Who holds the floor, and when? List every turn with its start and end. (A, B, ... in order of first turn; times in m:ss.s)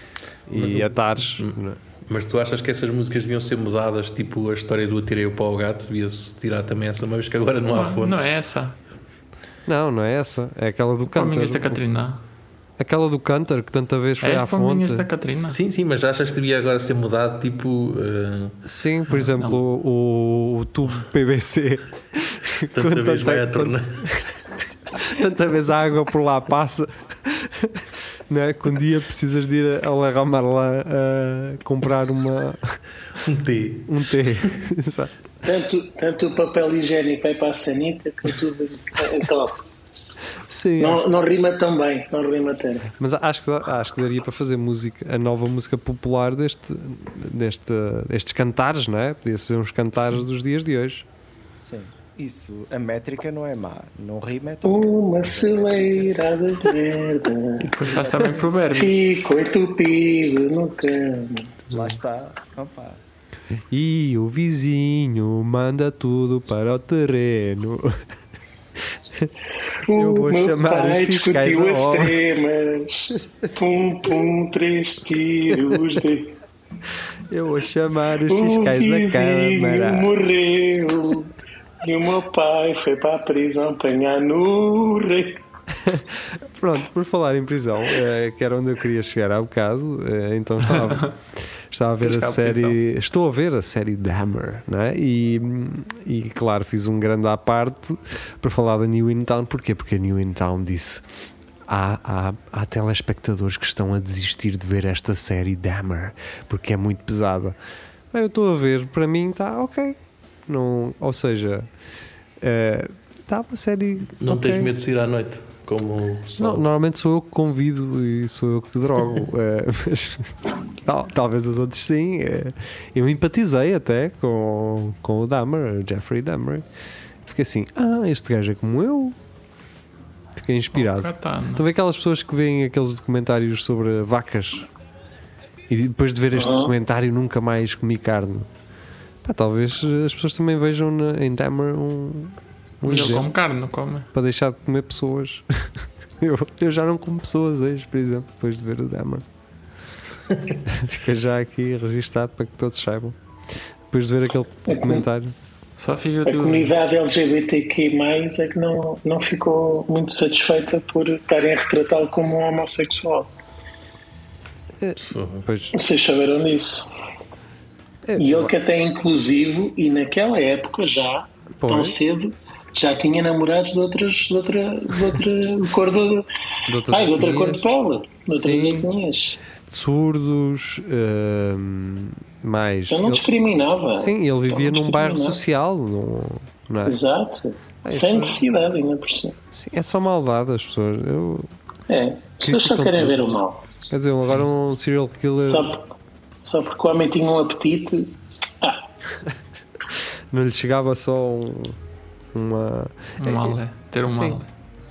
0:00.5-0:01.8 A
0:00.5-0:08.3 B
0:07.7-0:08.8 C
0:09.7-0:11.8 A
0:11.1-0:12.2 C
0:12.8-0:15.1 A
0:14.2-0:15.6 C
0:15.5-0:18.6 B
0:18.6-0:24.3 A
0:22.7-0:24.1 B
0:24.9-0:32.8 A
0:33.2-0:34.6 B
0:33.9-0:35.1 A
0:35.4-0:39.6 D
0:40.5-0:41.0 A
0:40.8-0:42.9 D
0:43.0-0:51.1 A
0:51.6-0:56.2 E
0:54.6-0:57.8 D
0:57.6-0:59.0 C
0:57.8-0:58.5 E
0:58.7-1:01.6 D
1:01.7-1:03.0 E
1:03.7-1:08.0 A
1:09.8-1:16.4 D
1:09.9-1:12.2 A
1:17.3-1:20.1 A
1:18.3-1:25.4 D
1:25.8-1:41.0 A
1:32.0-1:32.8 C
1:41.7-1:47.6 A
1:48.1-1:51.7 A
1:52.4-1:54.7 A
1:54.2-1:56.6 B
1:56.4-2:06.7 A
2:07.2-2:09.2 A
2:10.4-2:14.7 A
2:10.7-2:11.6 C
2:15.7-2:18.5 A
2:16.4-2:16.7 D
2:19.2-2:23.3 A
2:22.8-2:24.1 C
2:24.1-2:29.2 A
2:30.7-2:33.2 A
2:33.9-2:35.3 A
2:34.7-2:35.0 D
2:35.8-2:36.7 C
2:36.2-2:43.3 D
2:44.8-2:45.8 A
2:45.0-2:45.5 B
2:45.7-2:46.9 D
2:48.1-2:48.5 A
2:48.2-2:56.3 D
2:51.6-2:52.0 A
2:56.7-2:57.6 A
2:56.9-2:59.4 D
2:58.3-2:58.9 A
2:59.7-3:03.3 A
3:02.9-3:05.4 D
3:04.0-3:07.0 A
3:06.8-3:09.4 D
3:07.8-3:08.4 A
3:09.5-3:11.5 A
3:11.9-3:13.6 D
3:12.4-3:13.2 A
3:13.9-3:15.7 A
3:15.4-3:15.9 D
3:16.4-3:18.8 D
3:20.3-3:21.8 A
3:22.3-3:24.4 A
3:23.2-3:24.5 C